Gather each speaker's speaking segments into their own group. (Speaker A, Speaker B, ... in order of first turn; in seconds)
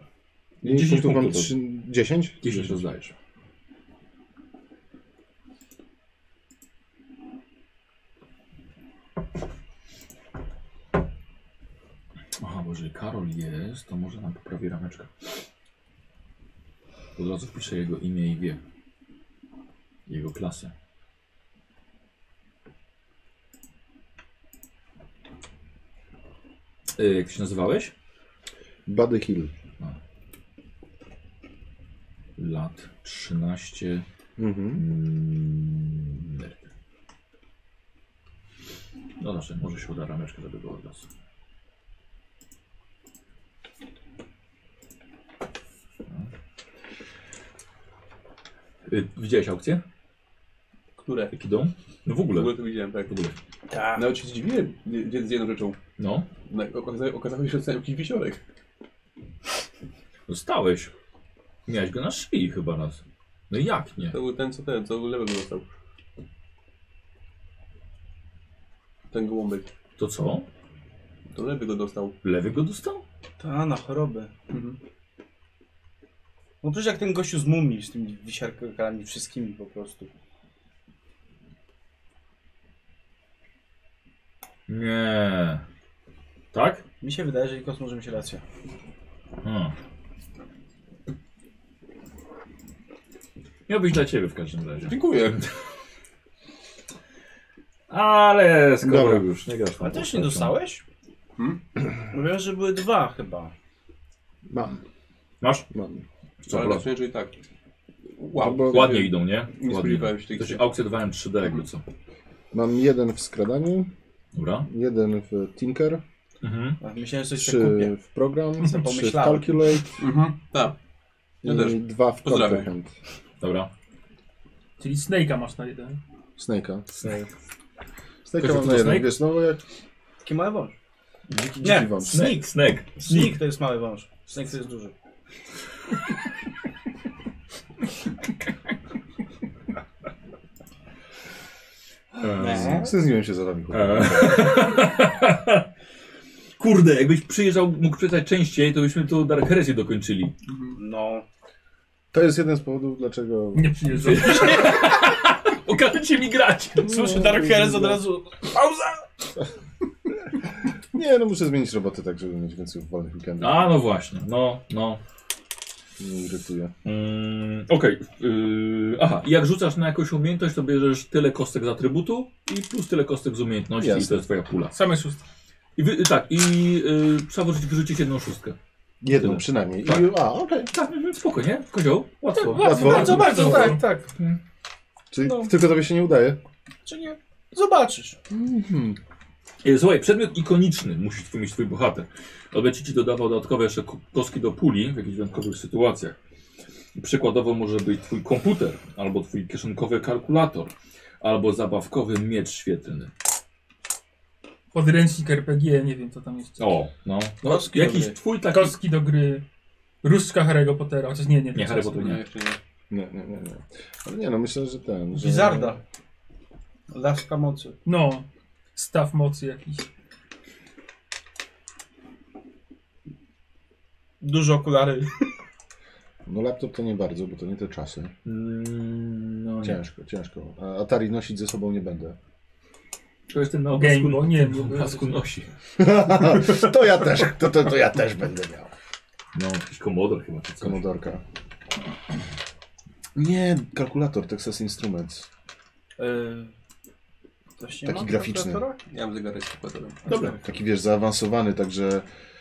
Speaker A: 0.6-1.5, 2.4-3.1, 12.4-15.1, 17.2-18.6, 20.1-20.7, 27.0-27.9, 32.4-34.1, 34.8-36.7, 39.2-41.1, 48.9-49.8, 51.3-53.4, 56.0-56.3, 60.3-60.9, 61.7-64.2, 70.0-70.5, 72.2-73.0, 84.7-85.6, 86.5-86.8, 89.4-89.7, 93.7-95.4, 97.9-100.6, 105.4-105.7, 106.5-106.9, 108.4-111.8, 114.3-114.7, 116.4-116.8, 123.4-123.7, 127.0-127.3, 128.4-129.1, 131.3-133.4, 142.2-142.9, 143.7-145.7, 146.6-150.3, 154.0-157.4, 163.4-165.0, 166.8-174.8, 175.8-178.6, 179.1-184.4, 189.6-196.2, 196.9-203.1, 206.6-208.8, 211.5-212.2, 228.2-229.8, 233.3-235.5, 239.3-240.8
Speaker B: 0.6-2.8, 28.9-29.5, 34.4-34.8, 98.8-99.2, 104.5-104.8, 105.7-106.0, 108.4-108.9, 112.5-113.9, 114.7-116.0, 117.4-119.9, 121.4-122.9, 126.4-126.9, 128.2-129.6, 131.5-132.1, 142.4-144.7, 152.1-154.4, 156.8-158.0, 160.9-163.8, 166.0-166.7, 173.8-174.2, 179.0-180.7, 182.6-183.5, 185.1-186.4, 188.3-189.0, 212.9-215.8, 226.2-228.1, 229.6-232.2, 235.8-238.7, 240.6-241.2, 243.2-245.3, 247.8-248.6, 250.1-252.1
Speaker C: 51.0-51.3, 52.3-53.1, 54.0-55.8, 56.5-58.4, 64.1-65.7, 69.1-69.7, 71.3-72.2, 74.5-74.8, 94.9-95.5, 106.5-107.3, 108.2-110.7, 120.0-120.8, 121.4-122.7, 150.5-150.8, 212.0-212.6, 248.9-250.3
Speaker D: 53.7-54.2, 73.4-74.3, 76.6-80.1, 87.0-88.4, 99.8-100.8, 102.1-103.5, 116.8-117.9, 118.6-119.7, 130.2-130.7, 131.6-134.9, 142.4-142.9, 150.8-151.2, 156.9-159.1, 182.4-184.1, 185.2-185.5, 186.8-188.2, 207.4-208.2, 215.1-215.8, 216.9-217.8, 224.2-225.3, 246.0-246.5, 247.6-248.8, 250.1-250.4
Speaker E: 124.8-126.0, 153.6-154.8, 174.7-175.2, 182.5-183.8, 204.7-206.7, 208.4-209.4, 210.0-212.2, 217.8-219.9, 233.7-235.1